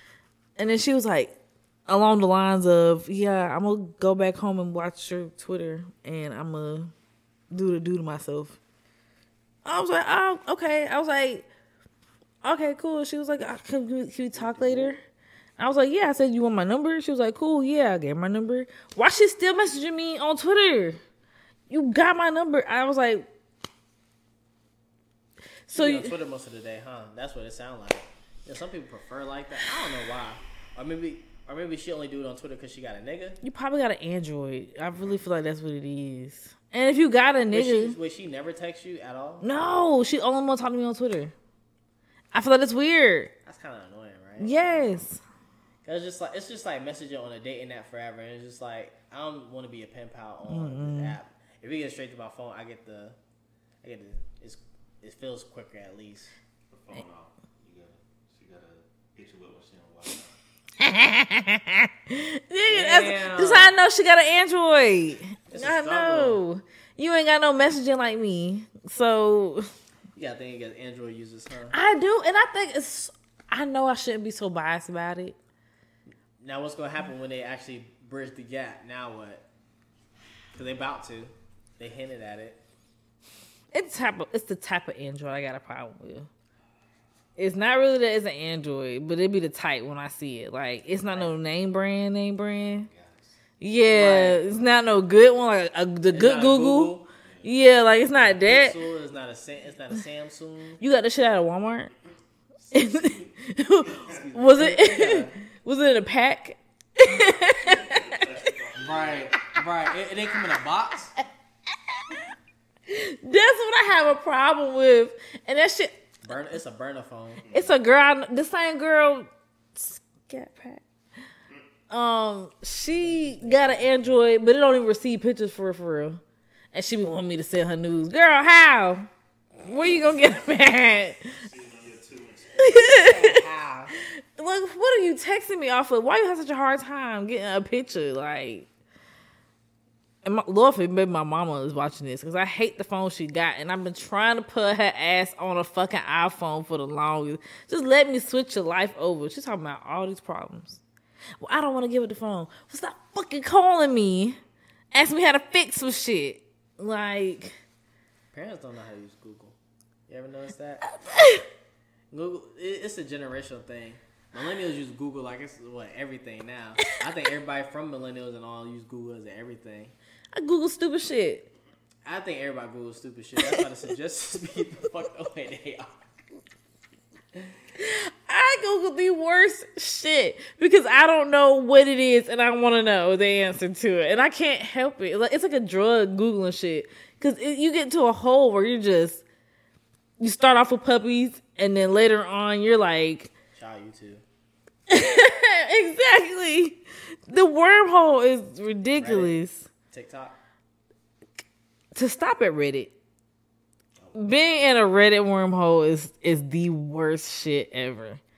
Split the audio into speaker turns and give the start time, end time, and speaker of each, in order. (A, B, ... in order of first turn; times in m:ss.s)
0:00.6-0:01.4 A
0:01.9-0:06.9 A
0:07.5-0:08.6 A
0:09.6-0:11.5 A
0:12.4-0:15.0 A
0:14.4-0:14.9 B
0:15.6-0:21.0 A
0:21.7-0:23.3 A
0:25.7-0:26.1 A
0:25.7-0:33.4 B
0:33.4-0:38.0 A
0:37.5-0:39.4 B
0:39.4-0:41.3 A
0:42.3-0:43.3 A
0:43.4-0:45.0 B
0:44.4-0:45.2 A
0:45.8-0:53.2 B
0:50.5-0:51.2 A
0:53.8-0:56.3 B
0:56.7-1:00.3 C
1:00.8-1:09.7 A
1:02.7-1:03.7 B
1:05.5-1:06.4 B
1:10.1-1:11.8 B
1:11.7-1:15.3 A
1:16.4-1:19.4 B
1:20.5-1:22.6 B
1:23.7-1:26.3 A
1:27.4-1:32.9 A
1:31.1-1:31.3 B
1:32.6-1:33.4 C
1:33.6-1:38.8 A
1:33.9-1:34.4 B
1:36.1-1:37.1 B
1:37.2-1:37.5 C
1:38.4-1:40.8 B
1:40.8-1:41.9 A
1:42.7-1:48.2 A
1:42.8-1:43.3 C
1:43.9-1:44.2 C
1:44.0-1:45.4 B
1:47.1-1:49.5 C
1:48.8-1:51.1 B
1:52.9-1:56.0 A
1:56.2-1:57.4 B
1:57.4-1:57.7 C
1:57.5-2:00.8 A
2:01.9-2:06.2 A
2:02.9-2:04.2 B
2:06.7-2:09.1 A
2:09.6-2:11.4 A
2:11.4-2:13.1 C
2:12.6-2:13.4 A
2:12.9-2:13.9 B
2:14.0-2:18.7 A
2:20.2-2:30.8 A
2:31.4-2:34.4 A
2:34.9-2:37.6 A
2:38.3-2:39.6 B
2:40.1-2:40.8 B
2:40.8-2:41.4 A
2:42.1-2:49.9 B
2:50.4-2:51.5 A
2:52.0-2:56.0 B
2:57.8-3:09.2 A
3:10.2-3:13.3 A
3:13.5-3:14.2 B
3:14.9-3:19.7 A
3:19.0-3:19.4 B
3:19.9-3:20.4 B
3:21.9-3:22.9 A
3:24.1-3:28.2 A